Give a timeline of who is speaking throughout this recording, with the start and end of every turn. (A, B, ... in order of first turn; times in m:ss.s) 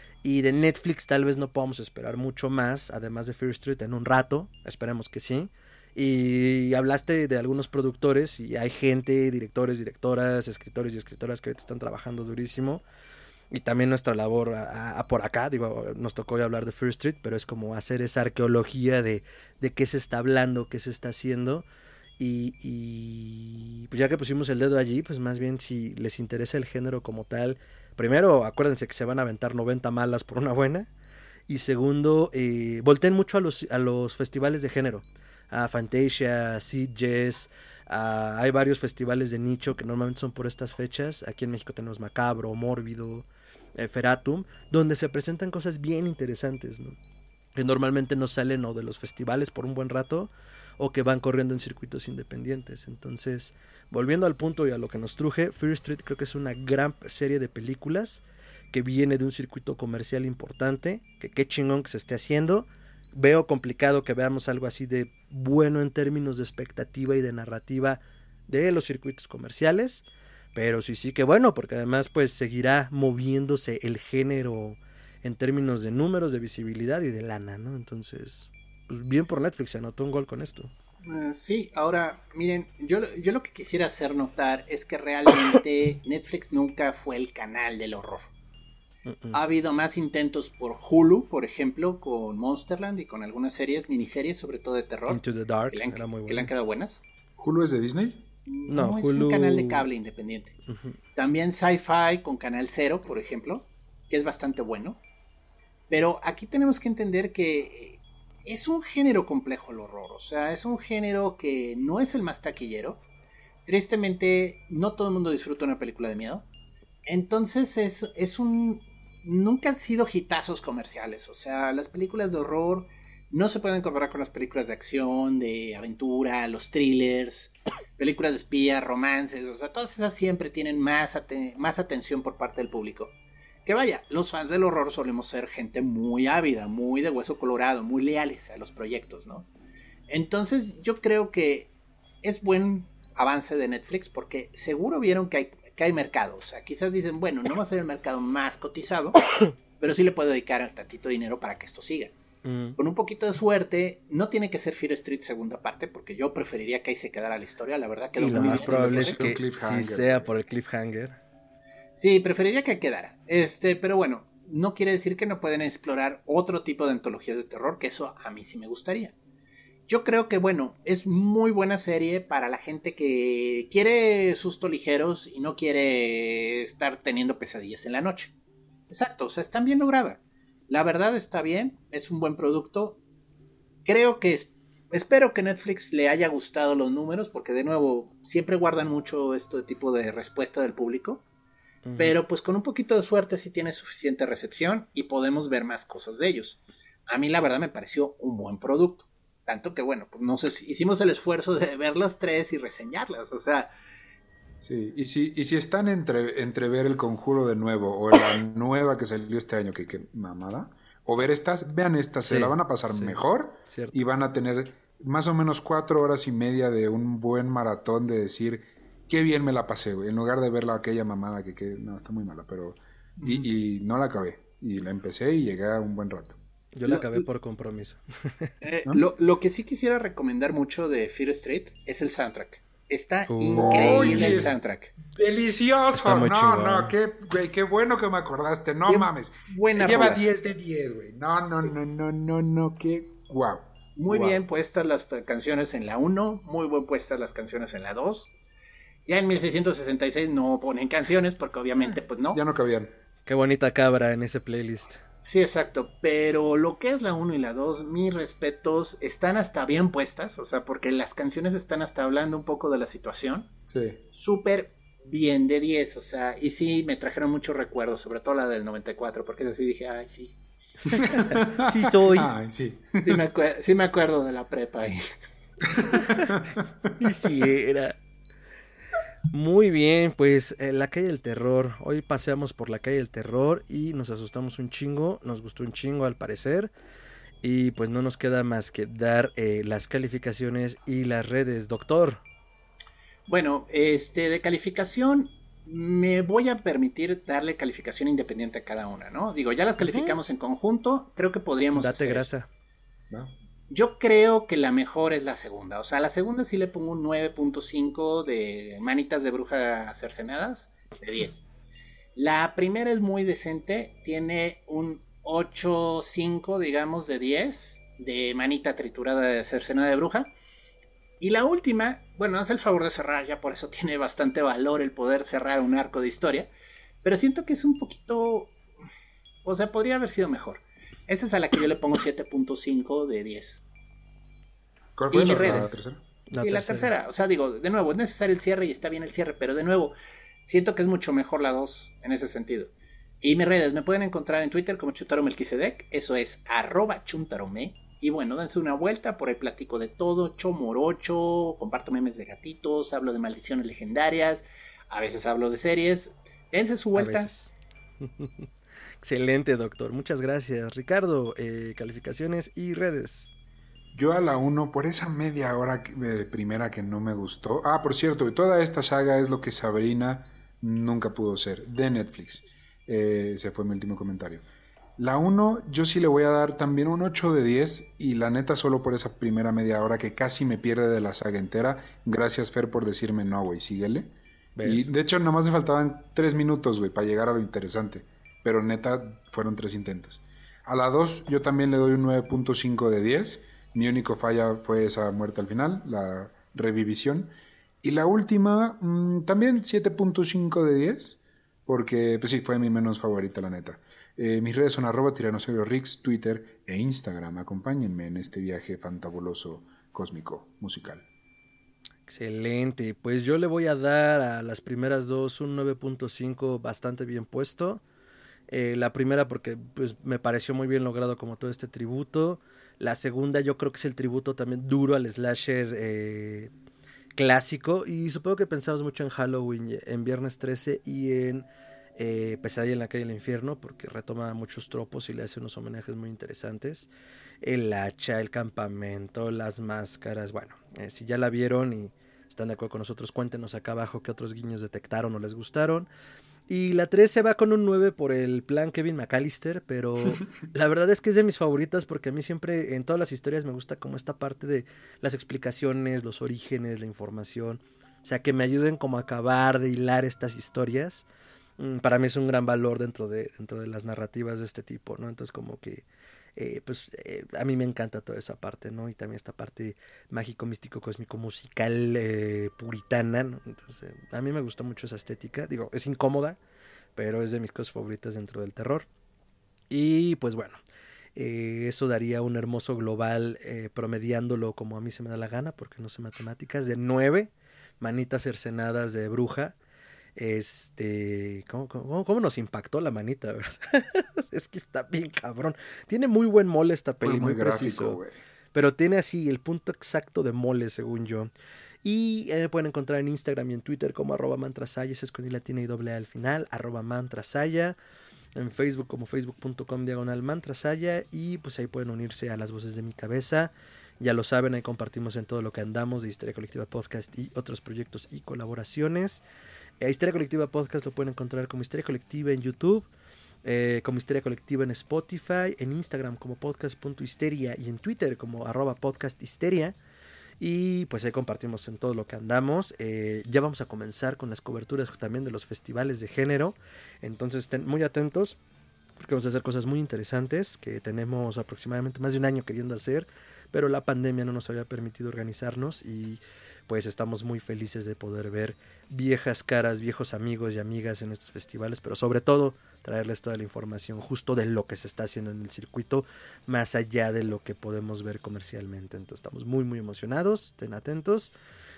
0:00.2-0:12.8 A
0:13.5-0:21.6 A
0:22.2-0:30.9 A
0:31.5-0:47.0 A
0:47.5-1:20.7 A
1:21.0-1:28.3 B
1:29.0-1:29.4 A
1:29.3-1:37.0 B
1:35.1-1:36.5 A
1:37.4-1:38.2 C
1:38.4-1:40.5 B
1:38.7-1:39.9 A
1:40.6-1:41.0 A
1:41.2-1:45.0 B
1:45.9-1:53.0 B
1:53.6-1:56.4 B
1:57.0-2:13.1 B
2:13.6-2:19.5 B
2:20.1-2:21.7 B
2:22.2-2:29.2 B
2:29.8-2:32.1 B
2:32.4-2:32.8 A
2:32.8-2:39.3 B
2:38.1-2:41.2 A
2:38.3-2:40.3 C
2:42.0-2:49.1 B
2:49.9-2:58.3 B
2:58.9-3:03.0 B
3:03.8-3:11.2 B
3:11.8-3:12.2 A
3:12.0-3:23.7 B
3:24.6-3:46.4 C
3:32.2-3:34.0 A
3:46.7-3:48.5 A
3:46.9-3:47.2 B
3:48.6-3:54.9 B
3:53.3-3:54.5 A
3:53.6-4:03.7 C
3:55.9-3:56.9 A
3:58.8-4:00.2 B
4:04.0-4:08.3 B
4:04.1-4:04.4 A
4:09.0-4:12.4 B
4:12.3-4:12.9 C
4:13.2-4:15.0 A
4:15.2-4:23.5 B
4:23.7-4:24.0 C
4:24.1-4:30.4 B
4:30.9-4:33.2 C
4:31.6-4:32.3 A
4:33.0-4:35.1 B
4:35.7-4:36.9 C
4:37.0-4:38.0 A
4:39.3-4:46.7 A
4:47.4-4:52.2 A
4:53.3-5:02.3 B
4:59.8-5:00.2 A
5:01.7-5:02.5 A
5:03.7-5:11.4 B
5:12.2-5:20.3 B
5:21.2-5:26.5 B
5:27.0-5:28.6 B
5:29.4-5:33.6 B
5:35.0-5:36.0 C
5:35.1-5:35.8 B
5:36.3-5:36.9 A
5:36.4-5:57.3 B
5:56.9-5:58.5 A
5:59.0-6:03.3 A
6:03.9-6:14.4 C
6:15.0-6:37.3 C
6:24.6-6:24.9 A
6:37.8-6:51.0 C
6:52.1-6:57.8 A
6:58.5-7:06.5 A
7:07.1-7:16.9 A
7:17.4-7:25.9 A
7:26.5-7:41.0 A
7:41.6-7:45.8 A
7:46.4-7:56.4 A
7:57.0-7:58.9 A
7:59.7-8:00.6 A
8:01.1-8:09.5 A
8:10.2-8:18.0 A
8:17.0-8:18.2 C
8:18.5-8:21.3 A
8:21.8-8:27.8 A
8:28.3-8:39.2 A
8:39.8-8:42.9 A
8:43.4-8:49.8 A
8:50.4-8:58.4 A
8:59.0-9:21.3 A